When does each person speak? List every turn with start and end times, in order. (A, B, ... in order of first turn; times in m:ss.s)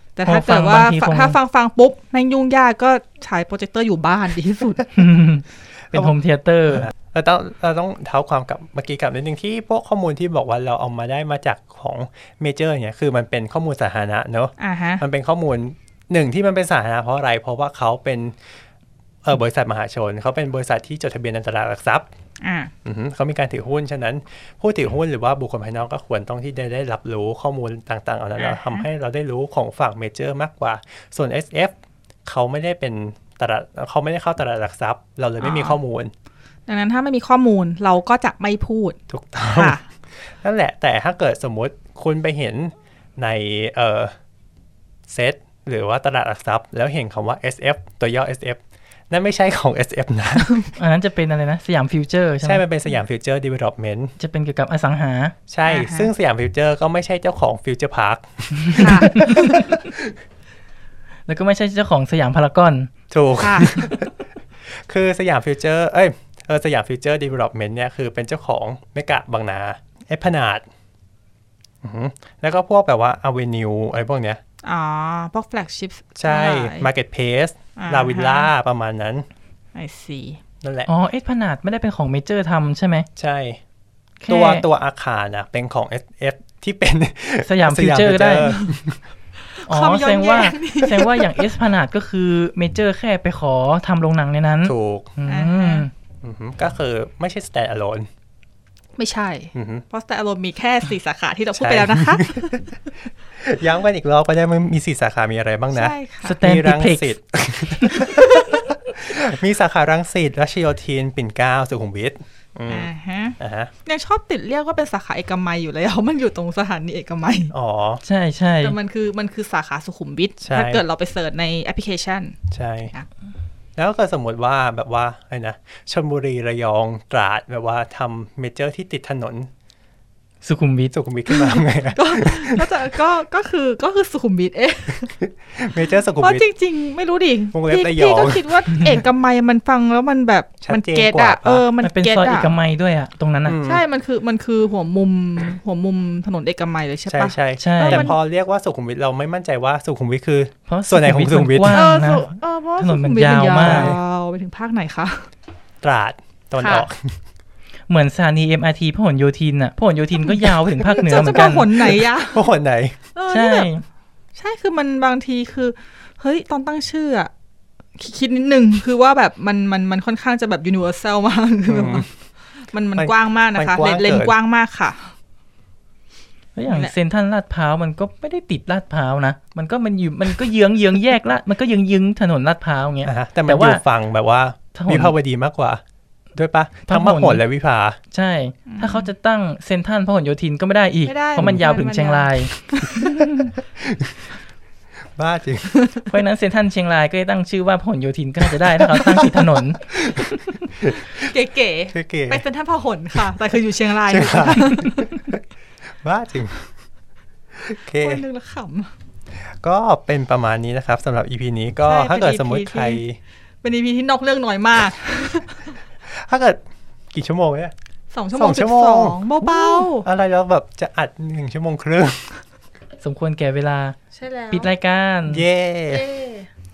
0:00.2-0:04.9 A
0:00.3-0:01.4 B
0:05.0-0:06.9 B
0:06.7-0:18.4 C
0:14.6-0:15.0 A
0:19.2-0:22.1 C
0:22.4-0:22.7 A
0:22.8-0:31.7 C
0:28.4-0:28.9 A
0:32.3-0:36.1 C
0:35.4-0:35.8 A
0:36.7-0:39.8 A
0:39.1-0:44.1 C
0:45.1-0:50.7 C
0:50.8-0:52.6 B
0:52.4-0:54.2 C
0:54.2-0:55.4 B
0:55.5-1:00.2 C
0:55.6-0:56.1 A
0:58.7-0:59.3 B
0:58.8-0:59.8 A
1:01.3-1:02.9 B
1:03.1-1:10.7 C
1:03.4-1:03.9 A
1:11.8-1:14.4 C
1:14.6-1:16.9 A
1:16.2-1:19.3 C
1:17.8-1:18.5 A
1:19.8-1:20.4 A
1:20.6-1:20.9 C
1:20.9-1:23.1 B
1:23.2-1:23.6 C
1:24.2-1:24.6 B
1:24.3-1:29.0 C
1:27.4-1:28.6 B
1:28.4-1:28.7 A
1:29.5-1:31.5 A
1:29.7-1:35.9 B
1:34.6-1:35.1 C
1:35.3-1:35.9 A
1:36.2-1:38.1 C
1:39.0-1:42.7 A
1:39.5-1:39.8 C
1:41.6-1:42.6 C
1:43.3-1:53.7 C
1:45.7-1:46.4 A
1:46.2-1:47.2 B
1:48.0-1:48.6 A
1:52.7-1:57.5 A
1:57.5-1:58.0 C
1:58.0-1:58.8 B
1:58.6-2:02.4 A
2:00.4-2:00.8 C
2:02.5-2:02.9 C
2:03.8-2:09.5 C
2:10.4-2:10.9 B
2:10.9-2:12.7 C
2:11.3-2:15.2 A
2:15.2-2:16.5 C
2:16.2-2:22.6 A
2:17.5-2:18.6 C
2:20.6-2:21.7 C
2:21.8-2:23.6 B
2:23.4-2:23.8 C
2:23.6-2:28.2 A
2:27.1-2:31.8 C
2:27.6-2:28.1 B
2:30.7-2:34.0 B
2:31.7-2:35.3 A
2:33.6-2:34.0 C
2:35.8-2:37.2 C
2:36.6-2:36.9 A
2:37.9-2:41.8 B
2:40.3-2:42.5 A
2:41.4-2:43.0 C
2:43.2-2:43.7 A
2:43.3-2:43.8 B
2:44.4-2:47.3 A
2:48.0-2:55.2 A
2:51.7-2:52.1 C
2:53.0-2:54.3 C
2:56.6-3:03.8 B
2:56.7-2:56.9 A
3:03.0-3:05.8 C
3:04.7-3:05.1 B
3:06.3-3:08.0 C
3:06.9-3:07.4 B
3:08.1-3:12.5 B
3:08.7-3:09.1 A
3:11.1-3:13.3 A
3:13.2-3:13.5 B
3:13.8-3:14.2 C
3:15.2-3:15.7 C
3:16.1-3:19.8 B
3:18.4-3:21.3 C
3:21.0-3:25.2 A
3:21.9-3:22.4 C
3:24.1-3:26.7 C
3:27.6-3:28.2 C
3:28.0-3:28.9 A
3:29.3-3:33.2 C
3:31.8-3:33.0 A
3:33.6-3:35.8 A
3:36.0-3:37.7 C
3:38.1-3:40.1 A
3:38.4-3:42.4 C
3:43.0-3:44.0 B
3:44.1-3:44.7 A
3:44.5-3:45.4 B
3:45.3-3:46.1 C
3:45.9-3:46.5 A